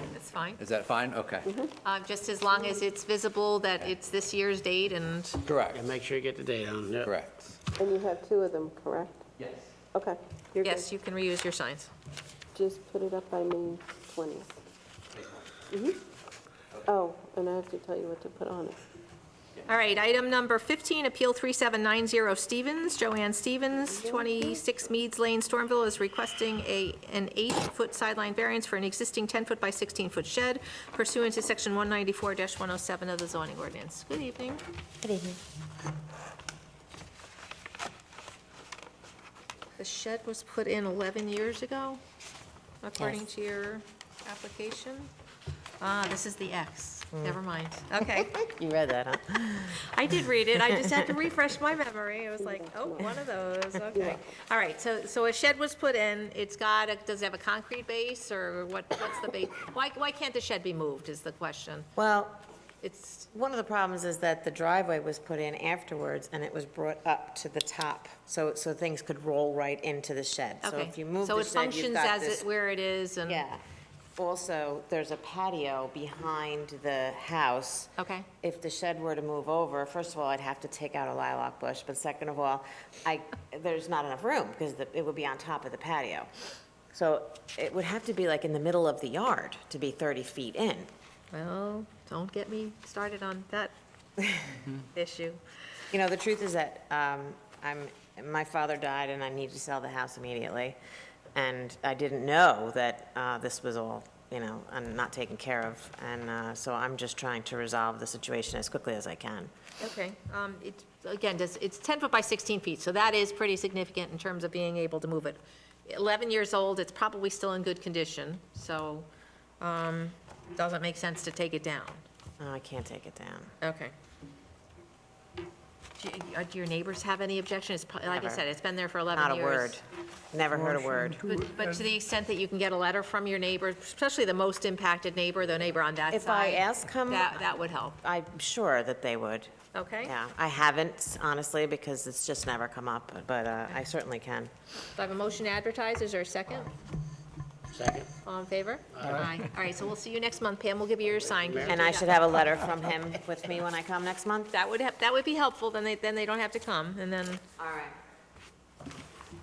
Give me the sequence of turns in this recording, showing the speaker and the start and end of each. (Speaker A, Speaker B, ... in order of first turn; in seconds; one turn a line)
Speaker A: 0.1-0.6
Speaker B: 0.6-1.5
Speaker C: 1.4-1.7
Speaker A: 1.8-5.4
Speaker B: 5.4-5.8
Speaker D: 5.7-7.1
Speaker B: 7.0-7.5
Speaker C: 7.8-9.3
Speaker C: 9.9-10.9
Speaker A: 10.6-11.9
Speaker C: 12.5-14.6
Speaker C: 15.7-16.0
Speaker C: 16.8-18.8
Speaker A: 19.6-34.6
Speaker C: 23.9-24.6
Speaker E: 35.0-35.4
Speaker A: 39.8-42.0
Speaker A: 42.8-45.1
Speaker E: 43.0-43.2
Speaker A: 45.8-48.3
Speaker E: 47.1-47.4
Speaker E: 48.0-51.1
Speaker A: 49.7-61.9
Speaker C: 52.4-53.2
Speaker C: 53.9-54.2
Speaker E: 62.0-62.4
Speaker A: 62.8-63.3
Speaker E: 63.3-72.5
Speaker A: 70.6-73.5
Speaker E: 73.3-73.6
Speaker E: 74.2-90.9
Speaker A: 78.0-78.3
Speaker A: 91.3-93.7
Speaker A: 94.5-95.4
Speaker E: 95.9-100.8
Speaker E: 101.3-109.5
Speaker A: 109.8-119.1
Speaker A: 119.6-122.0
Speaker E: 122.4-123.5
Speaker A: 123.6-123.9
Speaker A: 126.0-129.8
Speaker E: 128.1-128.4
Speaker E: 129.1-131.3
Speaker A: 131.2-138.0
Speaker E: 136.1-144.5
Speaker A: 139.7-140.1
Speaker A: 145.0-146.7
Speaker D: 147.7-148.1
Speaker A: 148.2-152.3
Speaker D: 148.9-149.2
Speaker D: 151.2-152.0
Speaker E: 151.6-154.5
Speaker A: 154.5-157.4
Speaker E: 157.6-158.0